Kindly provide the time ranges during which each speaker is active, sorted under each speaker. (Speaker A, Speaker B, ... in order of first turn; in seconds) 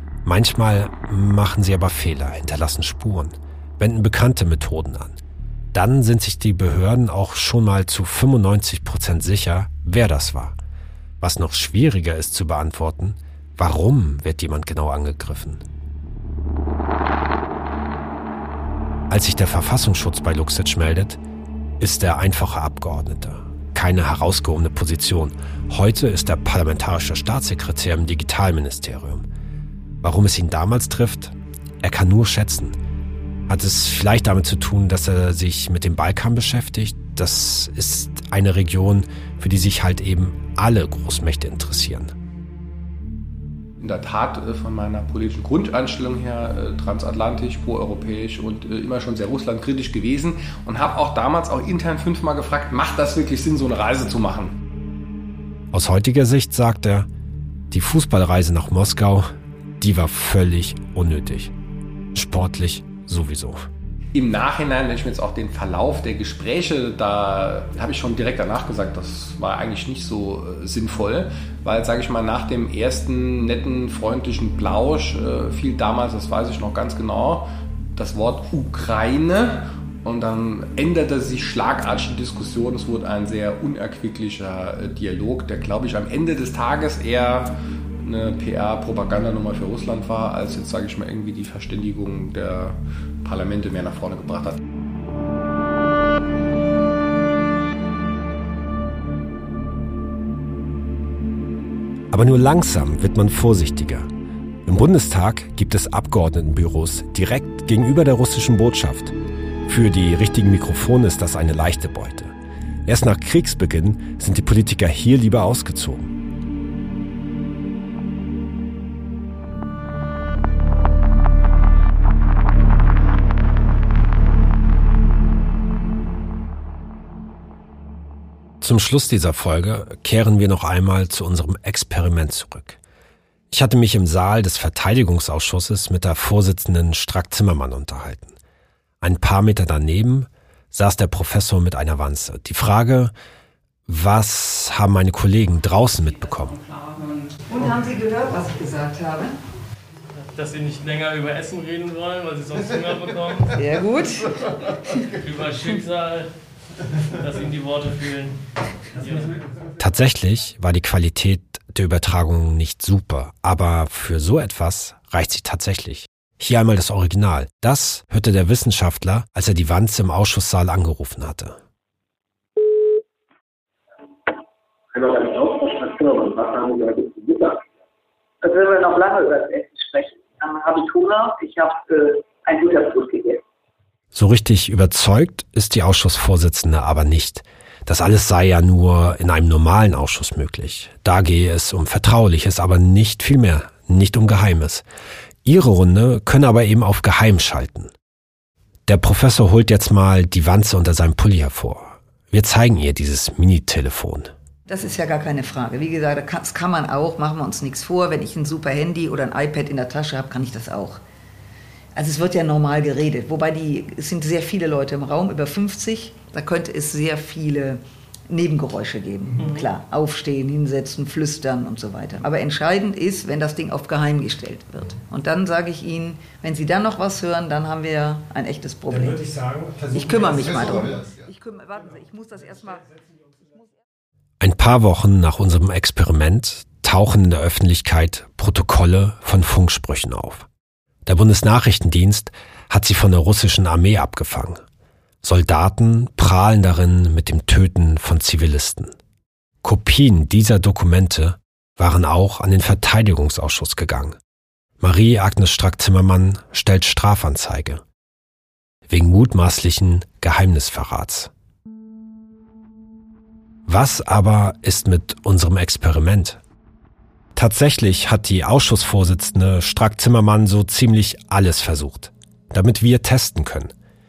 Speaker A: 0.2-5.2, 5.7-10.6, 11.2-15.6, 19.1-21.2, 21.8-29.2, 30.0-32.8, 33.5-42.1, 55.7-57.1, 57.7-61.5, 62.1-63.7, 102.1-104.1, 104.7-109.1, 109.7-112.3, 112.8-116.1, 128.6-132.8, 133.5-138.3, 139.0-143.1, 143.9-146.6, 159.8-171.6, 184.1-194.8, 195.4-197.9, 198.9-204.3, 228.9-230.9, 234.4-240.5, 241.1-244.6, 245.2-248.9, 249.6-254.2, 254.8-257.8, 258.9-261.3, 263.7-266.4, 267.4-273.7
Speaker B: 43.8-54.5, 64.1-94.6
Speaker C: 147.5-149.4, 153.6-154.3, 204.7-211.0, 211.9-229.2, 229.9-232.9
Speaker D: 150.2-153.6, 155.1-156.3, 157.1-158.4, 158.9-159.4
Speaker E: 174.9-177.7, 178.4-183.4